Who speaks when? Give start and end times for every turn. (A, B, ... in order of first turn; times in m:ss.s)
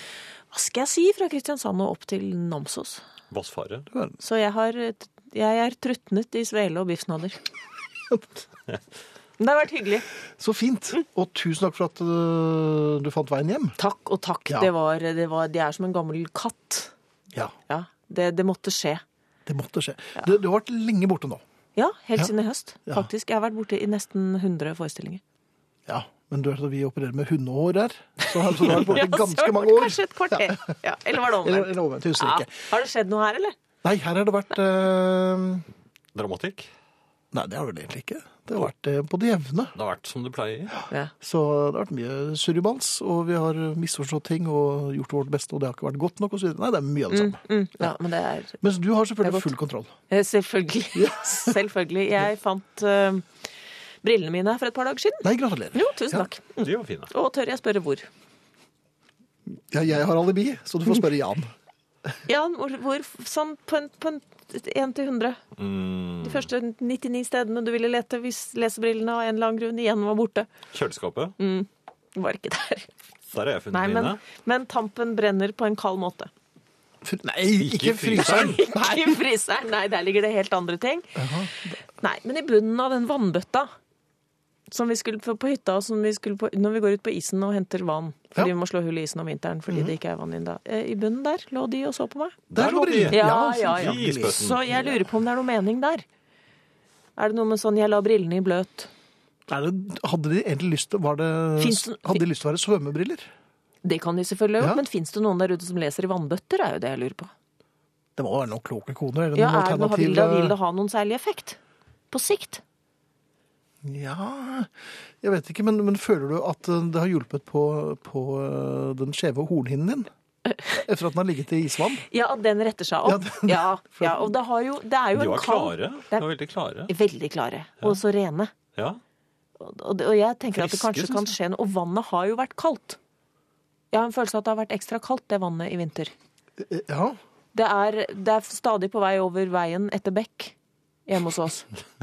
0:00.5-0:03.0 A
0:03.3-0:03.9 B
0:03.9-0:04.2 C
0:04.2-0:07.4 A
0:09.4-0:10.0 A
0:10.4-0:13.8 C
0:13.8-0:16.9 A
0:17.7-0:19.0 A
0:19.4-0:21.4 C
0:21.8-0:25.2 A
0:25.9-0:30.7 C
0:28.2-0:33.5 A
0:31.4-0:32.5 C
0:33.8-0:35.6 C
0:36.1-0:36.7 B
0:37.3-0:39.8 C
0:39.7-0:40.7 B
0:41.2-0:47.9 C
0:47.1-0:48.6 A
0:48.6-0:49.9 C
0:50.1-0:53.3 A
0:50.9-0:51.6 C
0:54.0-0:58.1 A
0:55.2-0:56.3 C
0:56.6-0:57.1 B
0:59.7-1:01.5 C
1:02.2-1:05.4 A
1:05.6-1:06.5 B
1:06.2-1:10.5 A
1:10.7-1:11.4 B
1:11.4-1:12.9 A
1:13.3-1:14.2 B
1:13.7-1:16.3 A
1:17.0-1:18.7 C
1:17.6-1:18.6 B
1:18.2-1:21.3 A
1:21.2-1:21.8 C
1:22.0-1:23.7 A
1:24.7-1:32.4 A
1:29.7-1:29.9 C
1:32.5-1:34.8 B
1:32.5-1:34.8 C
1:33.1-1:36.0 A
1:37.2-1:38.9 A
1:39.5-1:43.3 C
1:41.6-1:42.2 A
1:43.8-1:47.3 A
1:48.2-1:50.5 C
1:49.3-1:51.6 A
1:52.1-1:52.6 A
1:53.8-2:00.1 C
2:00.5-2:00.8 A
2:00.8-2:02.0 C
2:02.0-2:06.3 A
2:03.0-2:04.3 C
2:05.1-2:06.9 B
2:06.9-2:08.5 A
2:08.7-2:09.0 B
2:09.6-2:13.0 A
2:10.5-2:11.3 B
2:13.9-2:16.1 A
2:16.6-2:17.2 C
2:17.5-2:20.5 A
2:21.1-2:21.7 A